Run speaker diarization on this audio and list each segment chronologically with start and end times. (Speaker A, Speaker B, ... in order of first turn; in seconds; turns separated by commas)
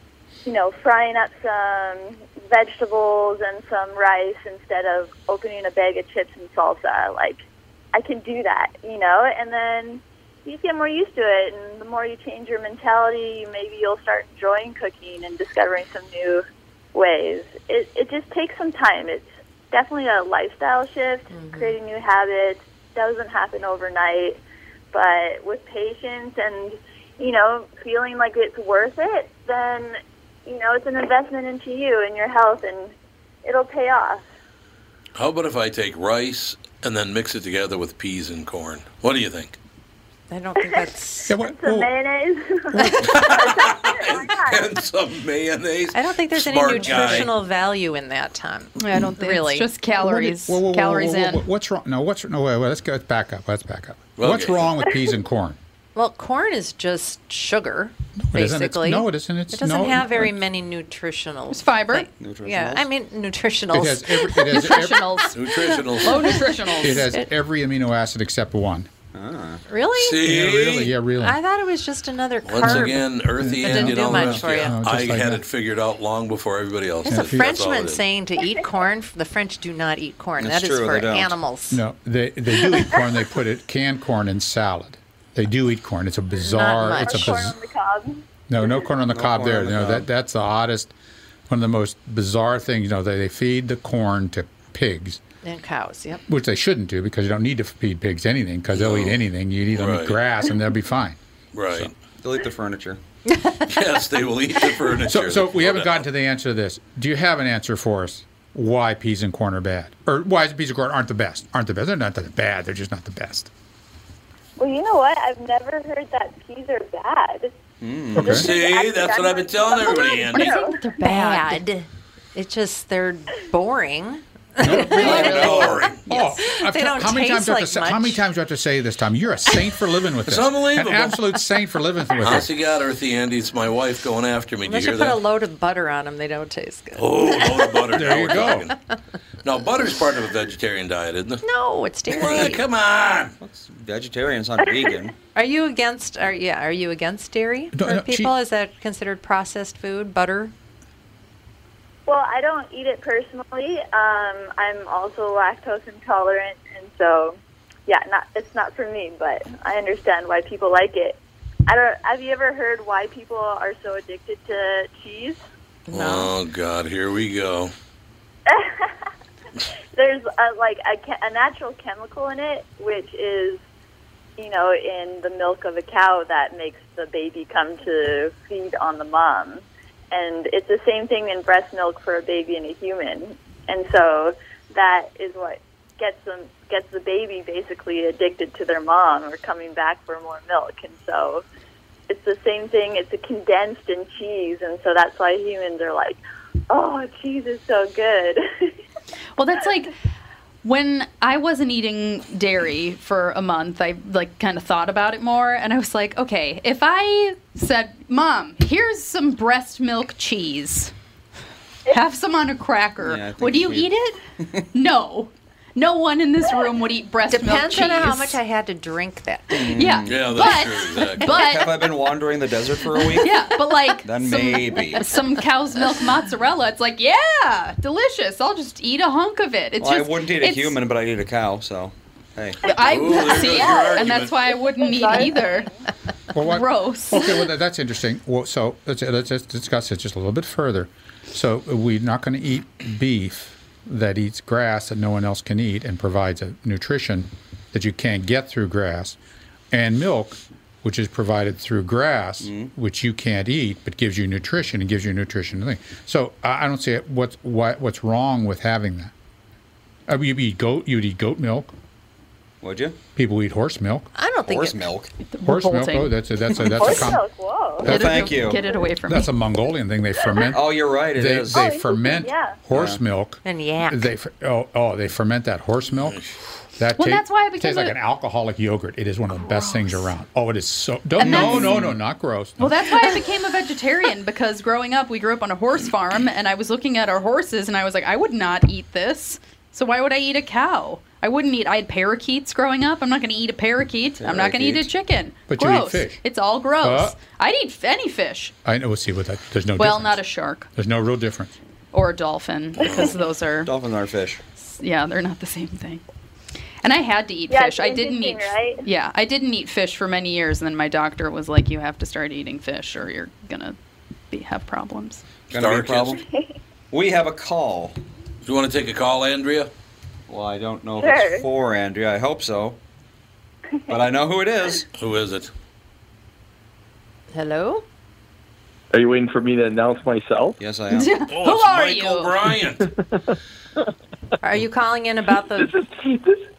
Speaker A: 0.4-7.4, Speaker A: 7.9-24.4, Speaker B: 21.3-21.7, Speaker A: 24.9-32.9, Speaker A: 33.4-34.2, Speaker C: 35.1-39.6, Speaker B: 40.3-41.3, Speaker A: 40.6-44.8, Speaker D: 41.3-41.9, Speaker D: 42.7-43.3, Speaker C: 43.0-47.3, Speaker B: 45.9-49.7, Speaker E: 48.8-51.5, Speaker D: 50.0-55.6, Speaker C: 54.2-54.8, Speaker B: 55.9-65.1, Speaker D: 58.2-60.3, Speaker E: 61.5-62.1, Speaker F: 62.2-62.9, Speaker D: 63.7-65.1, Speaker E: 64.5-67.1, Speaker C: 65.3-66.4, Speaker B: 66.0-67.3, Speaker D: 66.8-68.9, Speaker F: 69.1-69.6, Speaker B: 69.7-70.2, Speaker C: 70.0-70.9, Speaker D: 70.2-71.4, Speaker B: 71.2-74.8, Speaker C: 72.4-78.0, Speaker D: 73.4-75.4, Speaker B: 77.0-81.8, Speaker D: 77.1-77.6, Speaker F: 80.4-81.4, Speaker D: 81.7-87.5, Speaker B: 86.4-87.4, Speaker A: 87.0-88.7, Speaker D: 88.5-90.9, Speaker F: 89.1-90.0, Speaker D: 91.5-95.2, Speaker B: 95.4-96.2, Speaker D: 96.3-101.2, Speaker C: 98.7-99.2, Speaker C: 99.7-100.2, Speaker C: 101.5-101.9, Speaker F: 102.2-103.0, Speaker B: 103.3-103.6, Speaker C: 103.7-106.0, Speaker D: 105.1-113.5, Speaker A: 114.6-117.5, Speaker F: 117.8-118.4, Speaker D: 118.2-118.5, Speaker A: 118.2-120.9, Speaker C: 118.2-120.6, Speaker E: 120.3-121.6, Speaker B: 121.0-128.2, Speaker D: 124.6-132.5, Speaker C: 125.0-126.0, Speaker C: 130.3-131.3, Speaker C: 132.2-135.2, Speaker B: 134.6-137.1, Speaker C: 137.0-138.8, Speaker D: 137.9-138.7, Speaker C: 139.4-141.4, Speaker B: 141.4-142.6, Speaker C: 142.1-143.3, Speaker F: 143.4-145.1, Speaker B: 145.3-150.5, Speaker D: 147.7-148.3, Speaker A: 152.1-165.4, Speaker B: 165.9-166.3, Speaker C: 165.9-167.7, Speaker A: 168.5-168.9, Speaker A: 169.9-173.6, Speaker A: 174.4-191.4, Speaker A: 192.1-196.2, Speaker A: 196.7-198.7, Speaker E: 199.3-199.9, Speaker E: 200.6-210.9, Speaker E: 211.9-214.2, Speaker F: 213.0-213.9, Speaker E: 214.7-218.4, Speaker B: 217.3-219.7, Speaker F: 219.5-220.3, Speaker E: 219.7-221.8, Speaker C: 220.0-221.4, Speaker F: 221.2-223.4, Speaker E: 222.9-230.8, Speaker F: 224.0-225.1, Speaker F: 229.8-232.6, Speaker E: 232.6-235.7, Speaker C: 232.9-234.4, Speaker A: 233.1-233.9, Speaker A: 234.8-235.7, Speaker D: 236.3-249.2, Speaker E: 236.3-237.3, Speaker D: 249.7-259.1, Speaker F: 252.4-252.7, Speaker D: 260.1-261.7, Speaker F: 262.6-263.0, Speaker D: 263.1-264.1, Speaker B: 264.1-264.9, Speaker F: 264.4-265.1, Speaker E: 265.2-266.2, Speaker D: 265.4-267.2, Speaker A: 266.8-267.9, Speaker F: 267.8-268.6, Speaker E: 267.8-269.3, Speaker D: 269.1-276.2, Speaker F: 270.5-271.7, Speaker A: 271.5-272.6, Speaker F: 272.7-273.0, Speaker B: 273.4-274.1, Speaker C: 276.1-276.3, Speaker D: 276.8-282.9, Speaker E: 276.9-277.9, Speaker E: 279.4-280.0, Speaker F: 281.2-281.9, Speaker B: 281.2-281.7, Speaker E: 281.3-281.6, Speaker E: 282.6-298.5, Speaker F: 294.2-294.9, Speaker D: 295.5-296.3, Speaker D: 296.8-297.2, Speaker D: 298.6-301.6, Speaker E: 299.8-300.7, Speaker E: 301.9-303.7, Speaker C: 302.8-303.1, Speaker A: 302.8-303.1, Speaker F: 303.6-304.4, Speaker E: 304.6-306.0, Speaker E: 306.8-313.8, Speaker A: 307.5-308.9, Speaker E: 314.3-315.2, Speaker F: 315.5-316.2, Speaker C: 315.5-316.2, Speaker A: 316.2-316.5, Speaker F: 316.9-318.0, Speaker C: 318.4-319.7, Speaker F: 320.3-322.8, Speaker A: 321.0-321.4, Speaker F: 323.9-324.9, Speaker C: 324.9-325.5, Speaker B: 327.3-327.8, Speaker G: 328.9-330.6, Speaker F: 330.6-331.2, Speaker E: 330.9-332.3, Speaker C: 331.3-332.9, Speaker G: 332.8-333.3, Speaker B: 334.4-335.7, Speaker G: 335.5-336.4